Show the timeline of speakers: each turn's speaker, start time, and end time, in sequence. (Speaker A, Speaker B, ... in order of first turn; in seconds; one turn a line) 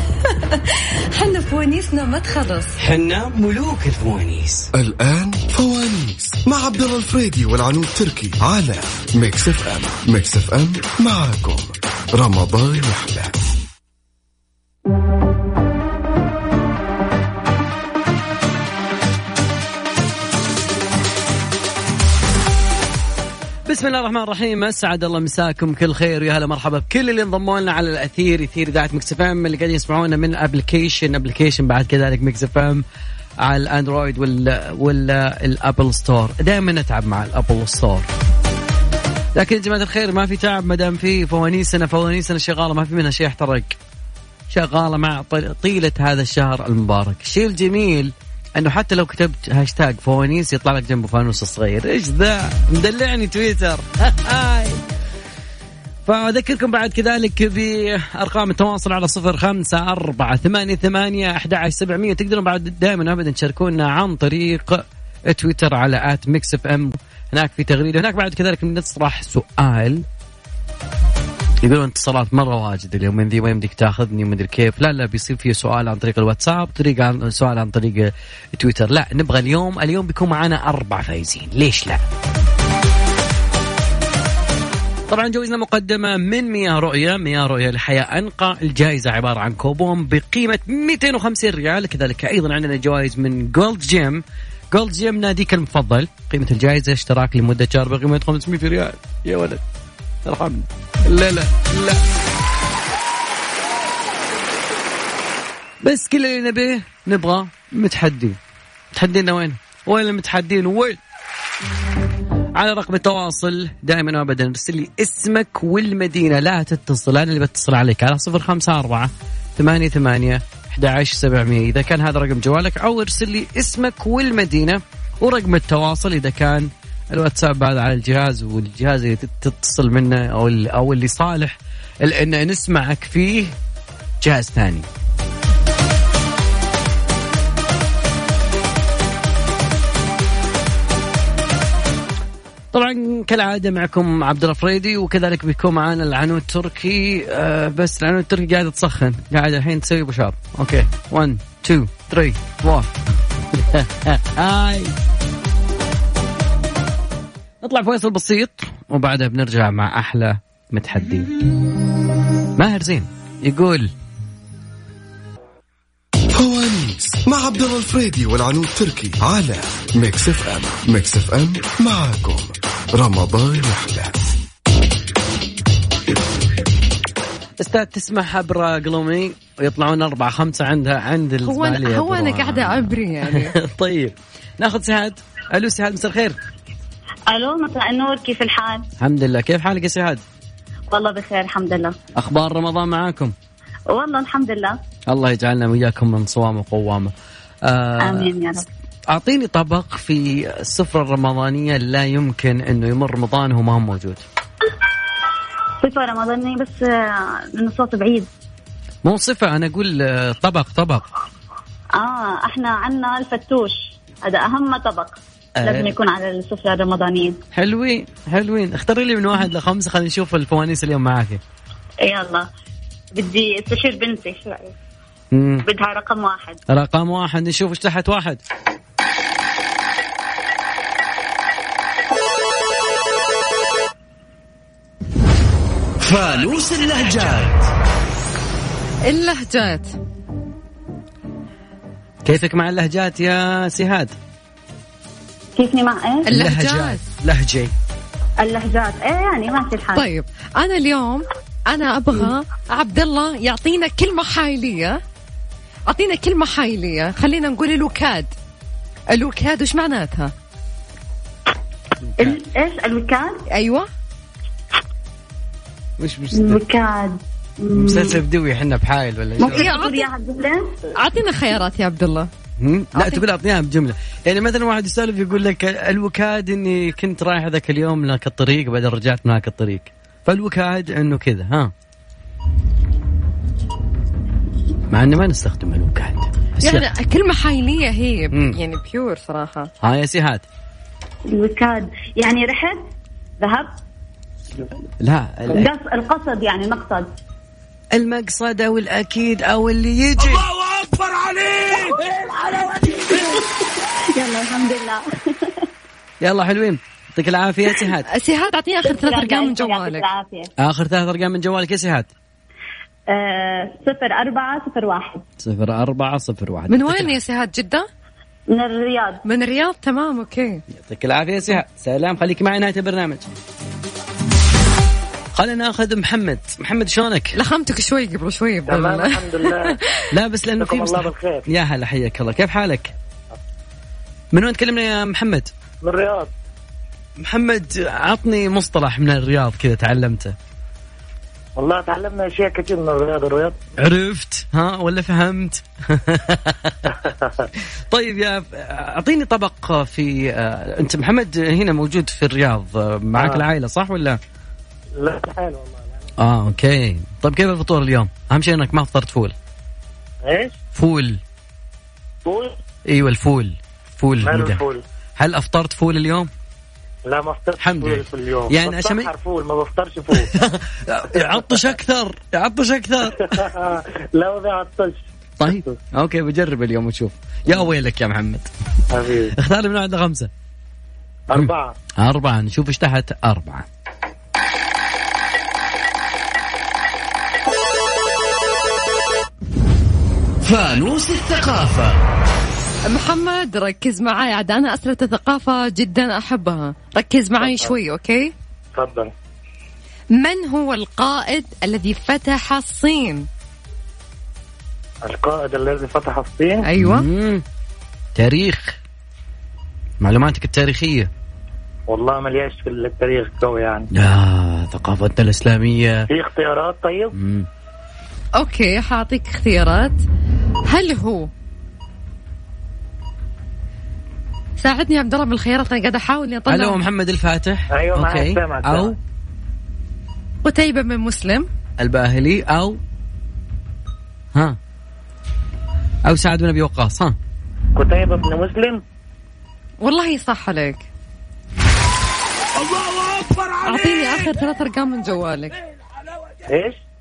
Speaker A: 0.3-2.8
Speaker B: 2.8-4.7
Speaker C: 4.7-13.3
Speaker B: 23.7-32.8
Speaker B: 33.4-38.1
Speaker B: 39.4-43.8
Speaker B: 44.5-54.8
Speaker B: 56.1-70.0
Speaker B: 71.6-82.0
Speaker B: 85.1-99.6
Speaker B: 100.3-102.0
Speaker B: 105.8-108.4
Speaker B: 108.9-111.0
Speaker B: 112.5-133.5
Speaker B: 134.2-134.9
Speaker B: 142.7-152.9
Speaker B: 153.5-154.9
Speaker B: 157.6-161.3
Speaker B: 162.6-163.9
Speaker C: 166.3-174.3
Speaker B: 177.6-186.4
Speaker A: 181.4-183.5
Speaker D: 187.3-188.9
Speaker B: 189.0-190.2
Speaker D: 190.9-191.9
Speaker B: 192.2-193.3
Speaker D: 193.9-194.8
Speaker B: 195.1-197.1
Speaker B: 197.7-198.3
Speaker D: 198.0-198.7
Speaker B: 199.1-204.2
Speaker D: 205.8-208.3
Speaker B: 209.0-211.1
Speaker D: 212.0-217.4
Speaker B: 215.6-215.9
Speaker B: 217.5-221.4
Speaker D: 222.1-222.5
Speaker D: 223.2-224.7
Speaker B: 225.3-225.6
Speaker D: 225.6-226.6
Speaker B: 226.7-228.4
Speaker E: 236.0-237.7
Speaker A: 239.1-240.0
Speaker B: 242.2-244.1
Speaker D: 245.6-246.3
Speaker A: 246.3-247.0
Speaker B: 246.3-247.7
Speaker D: 248.4-250.1
Speaker A: 249.9-255.0
Speaker A: 255.9-258.3
Speaker A: 259.1-260.3
Speaker D: 262.2-263.4
Speaker A: 263.5-263.9
Speaker B: 266.0-266.6
Speaker D: 266.3-268.2
Speaker B: 267.8-269.7
Speaker D: 269.4-270.7
Speaker A: 269.5-270.1
Speaker A: 271.0-272.3
Speaker B: 272.6-281.7
Speaker A: 272.9-273.2
Speaker B: 284.9-286.9
Speaker A: 286.6-289.7
Speaker B: 289.8-290.4
Speaker D: 291.3-292.8
Speaker D: 293.4-293.7
Speaker B: 295.0-295.7
Speaker D: 295.5-297.1
Speaker B: 297.9-300.6
Speaker D: 303.0-305.6
Speaker B: 306.2-308.1
Speaker A: 308.1-310.0
Speaker D: 308.9-310.5
Speaker B: 310.6-312.1
Speaker D: 313.1-315.2
Speaker B: 315.4-317.1
Speaker A: 316.7-317.9
Speaker D: 318.5-319.2
Speaker A: 319.2-320.6
Speaker B: 320.8-323.3
Speaker B: 325.4-327.4
Speaker A: 327.4-330.0
Speaker F: 328.7-329.8
Speaker B: 330.1-332.9
Speaker F: 330.6-331.5
Speaker B: 334.3-335.5
Speaker F: 335.8-336.3
Speaker B: 337.2-340.4
Speaker F: 341.6-343.6
Speaker B: 343.8-346.8
Speaker F: 347.1-347.5
Speaker B: 347.9-354.2
Speaker F: 353.2-353.4
Speaker F: 355.0-355.9
Speaker B: 356.2-359.4
Speaker F: 360.2-360.6
Speaker B: 360.8-361.2
Speaker F: 362.2-362.6
Speaker B: 362.9-364.6
Speaker F: 364.2-364.8
Speaker B: 365.2-366.3
Speaker F: 367.1-370.3
Speaker B: 367.6-369.1
Speaker B: 370.3-373.4
Speaker F: 371.2-371.6
Speaker F: 373.2-375.8
Speaker B: 375.4-378.5
Speaker F: 378.9-379.4
Speaker B: 379.4-380.3
Speaker F: 381.3-381.8
Speaker B: 381.3-383.7
Speaker E: 390.4-392.0
Speaker A: 392.9-398.3
Speaker F: 397.4-397.7
Speaker F: 398.8-399.1
Speaker A: 400.1-403.3
Speaker F: 405.0-406.7
Speaker A: 406.6-407.1
Speaker B: 406.8-407.4
Speaker B: 408.1-408.8
Speaker B: 410.0-411.1
Speaker F: 411.9-413.9
Speaker B: 413.9-416.1
Speaker F: 416.1-417.1
Speaker B: 417.1-417.5
Speaker A: 418.4-420.0
Speaker A: 420.7-421.3
Speaker A: 424.6-426.8
Speaker B: 426.5-429.0
Speaker F: 427.7-428.9
Speaker A: 430.4-431.5
Speaker B: 431.8-432.8
Speaker B: 436.1-437.2
Speaker F: 437.8-438.8
Speaker A: 439.8-440.9
Speaker A: 443.6-445.6
Speaker F: 446.5-446.8